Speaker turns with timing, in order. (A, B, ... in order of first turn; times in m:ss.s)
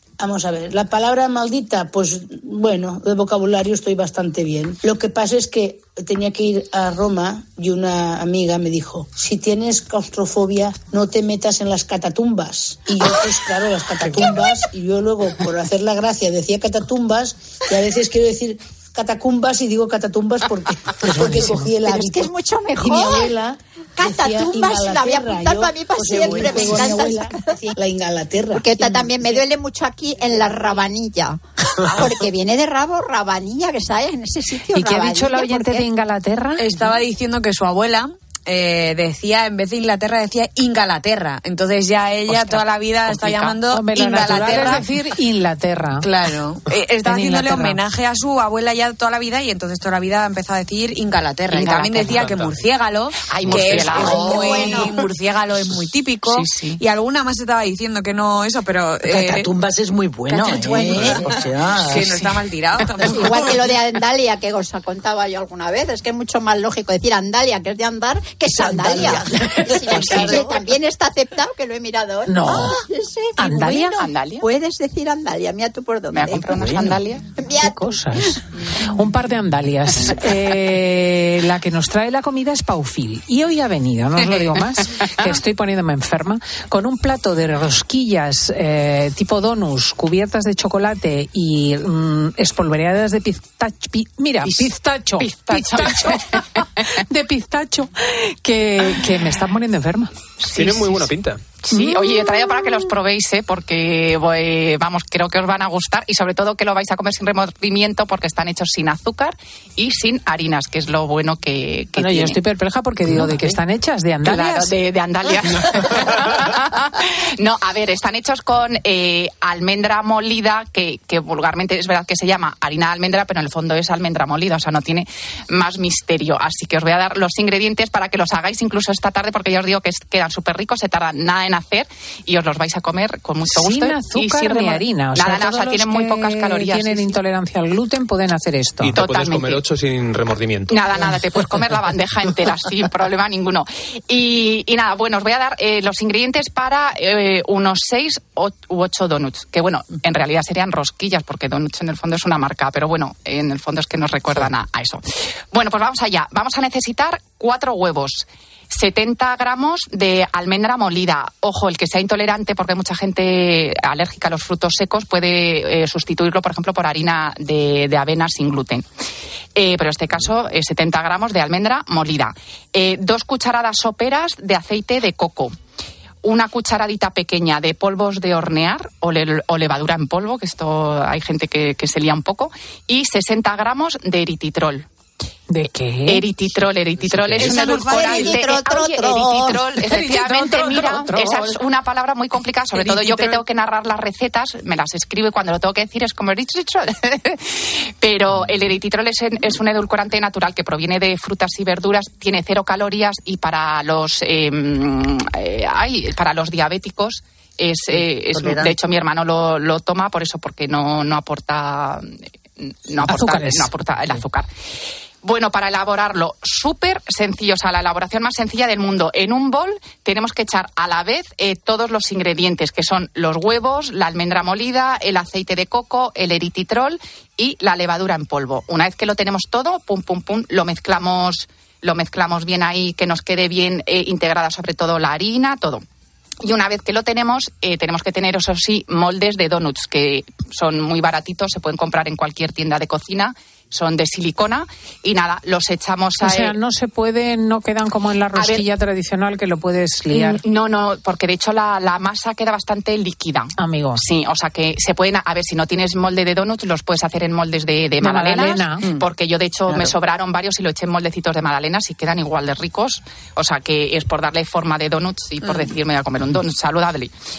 0:00.2-0:22.2 A
0:21.7-0:23.3 B
0:22.8-0:29.0 A
0:24.0-0:27.5 B
0:28.5-0:35.9 B
0:34.7-0:36.9 C
0:36.6-0:45.0 D
0:42.3-0:43.6 E
0:43.7-0:46.1 C
0:44.3-0:44.7 E
0:46.0-0:59.5 D
0:47.0-0:47.8 C
0:51.5-0:52.2 E
0:52.1-0:52.6 F
0:53.3-0:54.9 E
0:54.0-0:54.9 B
0:56.2-0:56.8 E
0:59.1-1:02.1 G
1:00.3-1:03.6 D
1:03.1-1:18.4 B
1:08.5-1:10.6 G
1:10.0-1:10.5 E
1:12.3-1:12.8 C
1:13.4-1:14.0 C
1:14.0-1:14.4 E
1:16.1-1:17.2 E
1:17.6-1:36.4 C
1:34.4-1:36.7 E
1:37.1-1:40.1 C
1:40.4-1:41.0 E
1:40.5-1:41.4 F
1:41.6-1:52.4 E
1:52.0-1:54.7 C
1:53.2-1:53.6 E
1:54.2-2:17.2 E
2:13.5-2:19.0 C
2:18.8-2:20.8 F
2:18.9-2:19.6 E
2:20.7-2:48.9 E
2:49.6-2:55.6 E
2:56.2-3:04.9 E
3:05.5-3:06.3 C
3:06.1-3:34.5 E
3:07.4-3:08.4 D
3:07.6-3:09.7 B
3:09.9-3:11.6 C
3:10.3-3:10.8 D
3:12.7-3:13.4 D
3:28.2-3:28.8 G
3:33.0-3:33.7 C
3:35.2-3:55.8 E
3:56.4-4:06.5 E
4:06.2-4:10.4 C
4:08.4-4:08.7 E
4:10.1-4:27.1 E
4:13.6-4:14.0 C
4:18.0-4:18.8 C
4:19.7-4:19.9 G